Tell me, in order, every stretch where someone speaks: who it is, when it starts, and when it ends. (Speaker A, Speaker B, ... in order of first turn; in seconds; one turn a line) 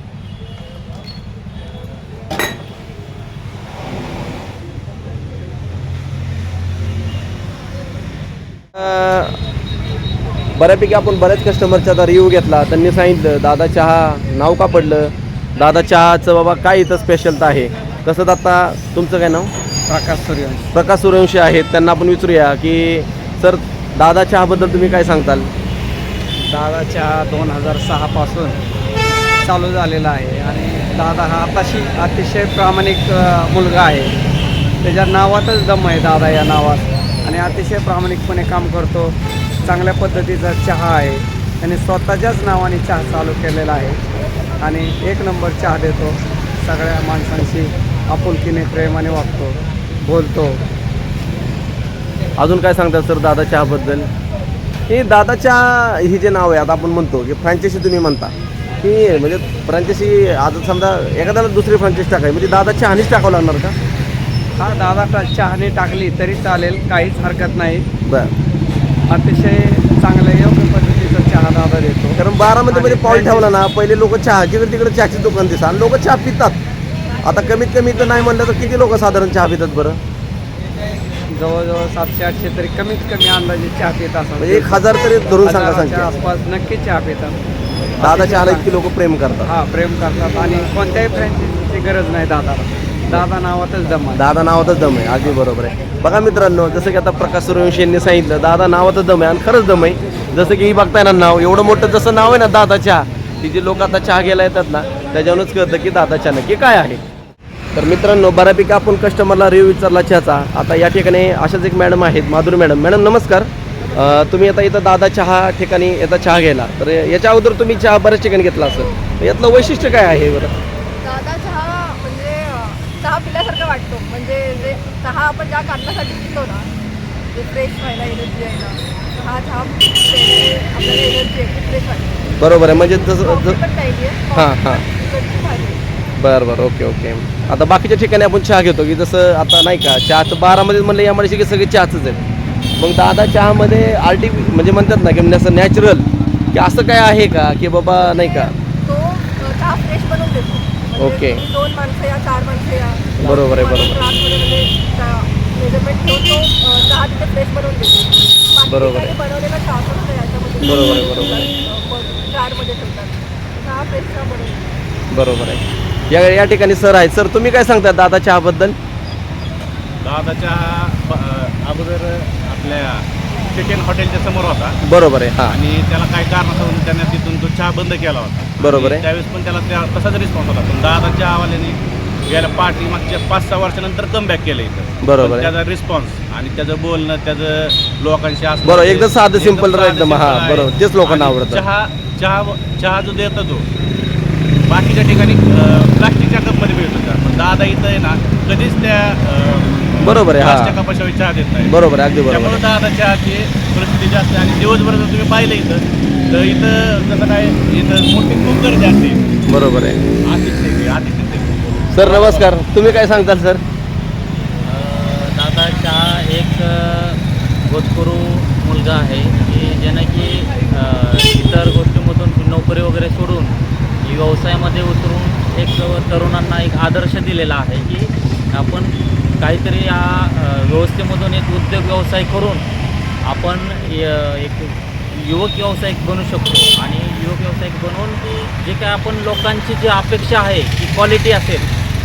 Speaker A: 8.8-9.4
Speaker A: 10.6-19.5
Speaker B: 19.9-20.7
Speaker A: 20.7-25.5
Speaker B: 26.4-28.6
Speaker B: 29.4-34.1
Speaker B: 34.8-44.0
Speaker B: 44.6-50.6
Speaker A: 52.4-54.1
Speaker A: 54.9-63.8
Speaker B: 64.6-67.9
Speaker A: 68.1-68.3
Speaker B: 69.1-72.2
Speaker A: 72.2-76.6
Speaker B: 72.7-73.5
Speaker A: 77.2-80.0
Speaker B: 81.3-87.4
Speaker A: 84.4-86.1
Speaker A: 88.0-89.5
Speaker B: 88.0-88.7
Speaker B: 89.5-94.2
Speaker A: 94.2-107.0
Speaker A: 107.8-120.6
Speaker C: 118.7-119.0
Speaker C: 121.0-126.7
Speaker C: 127.3-135.8
Speaker A: 132.4-133.6
Speaker A: 134.3-134.8
Speaker A: 136.2-142.2
Speaker A: 142.8-148.5
Speaker C: 148.3-164.7
Speaker A: 151.0-151.5
Speaker A: 153.2-154.1
Speaker A: 158.7-159.2
Speaker A: 160.6-161.5
Speaker A: 165.1-168.8
Speaker D: 170.0-174.8
Speaker A: 174.8-175.6
Speaker D: 175.5-193.7
Speaker A: 178.6-179.1
Speaker A: 185.0-185.5
Speaker A: 188.6-191.7
Speaker D: 194.7-201.8
Speaker A: 200.0-200.8
Speaker A: 201.7-202.6
Speaker D: 202.3-209.2
Speaker A: 209.5-210.0
Speaker D: 210.3-212.5
Speaker A: 211.9-213.6
Speaker E: 214.6-232.6
Speaker E: 233.2-241.7